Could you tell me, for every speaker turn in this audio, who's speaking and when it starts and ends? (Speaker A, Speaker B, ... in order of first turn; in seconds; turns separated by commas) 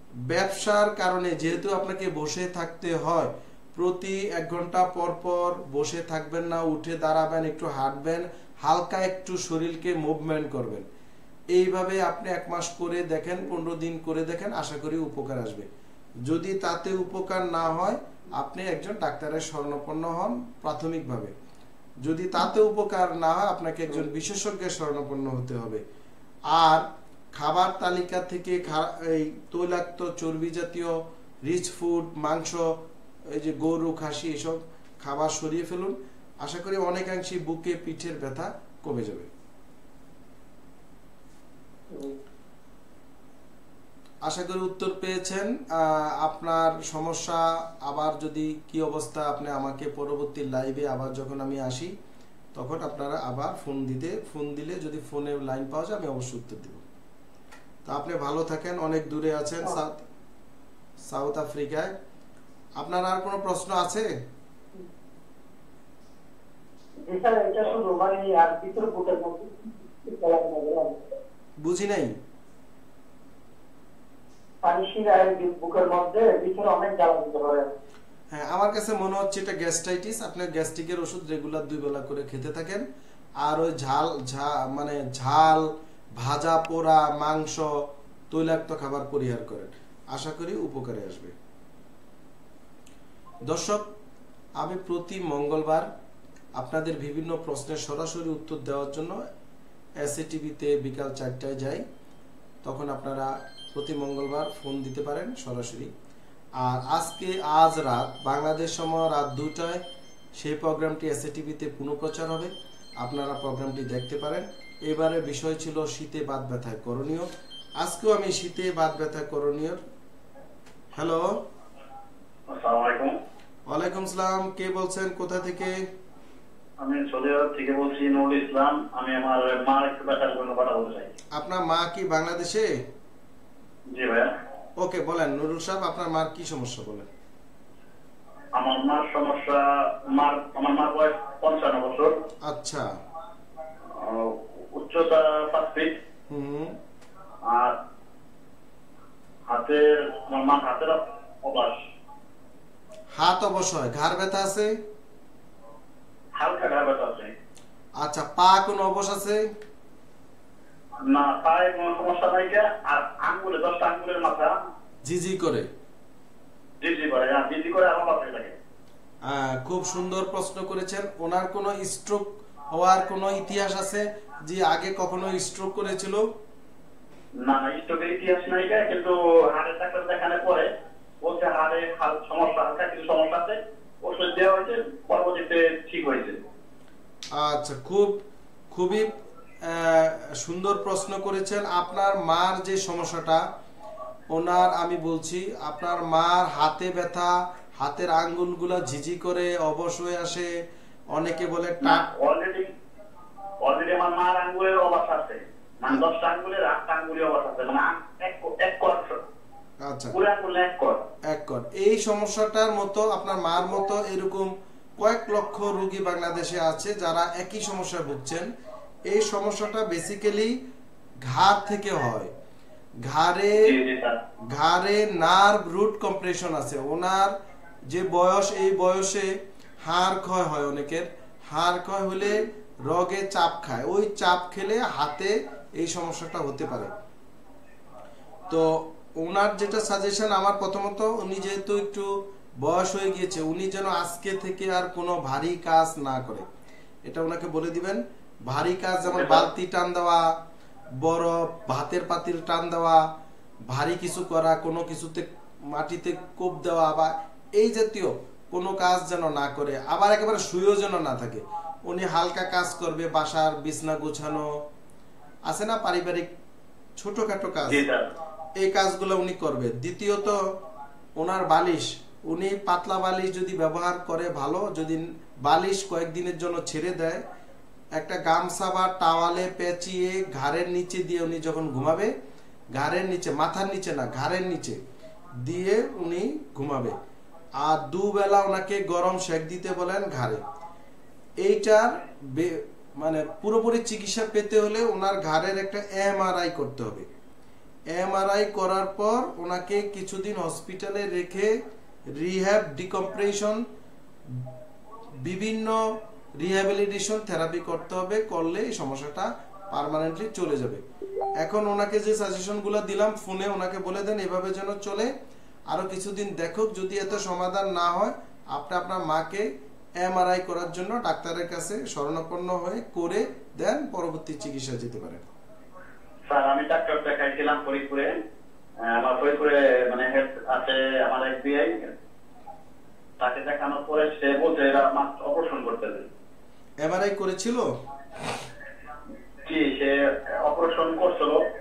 Speaker A: 0.3-10.8, Speaker A: 11.5-15.7, Speaker A: 16.2-21.3, Speaker A: 22.0-25.8, Speaker A: 26.5-32.6, Speaker A: 33.3-39.3, Speaker A: 44.2-51.9, Speaker A: 52.5-56.8, Speaker A: 57.9-60.0, Speaker A: 61.1-61.9, Speaker A: 62.8-64.1, Speaker B: 67.0-71.0, Speaker A: 71.6-72.2, Speaker B: 74.6-77.7, Speaker A: 78.3-82.8, Speaker A: 83.4-87.7, Speaker A: 88.3-91.3, Speaker A: 93.5-93.9, Speaker A: 94.6-95.9, Speaker A: 96.5-99.2, Speaker A: 100.0-101.8, Speaker A: 102.6-105.9, Speaker A: 106.6-109.8, Speaker A: 110.4-119.8, Speaker A: 120.9-121.3, Speaker C: 122.5-123.1, Speaker A: 123.7-125.8, Speaker C: 126.8-131.1, Speaker A: 131.3-132.7, Speaker C: 133.9-134.3, Speaker A: 134.8-137.1, Speaker C: 138.5-142.1, Speaker A: 142.4-142.8, Speaker C: 143.9-145.9, Speaker A: 146.3-146.8, Speaker C: 147.4-147.7, Speaker C: 149.5-151.7, Speaker A: 153.1-154.7, Speaker C: 156.3-157.3, Speaker A: 158.0-159.4, Speaker C: 161.0-164.5, Speaker A: 165.0-165.7, Speaker C: 166.8-168.5, Speaker A: 169.2-176.2, Speaker C: 177.4-180.7, Speaker C: 181.2-186.4, Speaker A: 187.3-188.2, Speaker A: 188.7-189.1, Speaker A: 189.6-193.4, Speaker A: 194.3-200.5, Speaker A: 201.1-202.1, Speaker C: 201.8-202.7, Speaker C: 203.6-209.2, Speaker A: 209.8-210.2, Speaker C: 210.1-211.0, Speaker A: 211.3-218.5, Speaker A: 219.1-220.5, Speaker A: 221.2-222.3, Speaker A: 223.0-223.7, Speaker C: 223.6-224.2, Speaker A: 224.5-227.3, Speaker A: 227.9-236.9, Speaker A: 238.5-246.4, Speaker A: 247.0-250.3, Speaker C: 249.1-249.5, Speaker A: 251.0-253.1, Speaker A: 253.7-264.5, Speaker A: 265.4-266.3, Speaker A: 267.0-267.9, Speaker C: 267.7-268.0, Speaker A: 268.6-270.5, Speaker A: 271.2-277.2, Speaker A: 277.9-282.1, Speaker A: 282.7-284.8, Speaker A: 285.4-286.9, Speaker A: 287.6-290.4, Speaker A: 291.4-297.1, Speaker A: 297.9-301.6, Speaker A: 302.1-303.6, Speaker A: 305.2-305.8, Speaker A: 306.4-310.8, Speaker A: 311.4-315.1, Speaker A: 315.7-319.5, Speaker A: 320.0-325.2, Speaker C: 326.3-328.1, Speaker C: 328.8-331.9, Speaker C: 333.2-336.1, Speaker A: 336.8-337.7, Speaker C: 339.4-341.4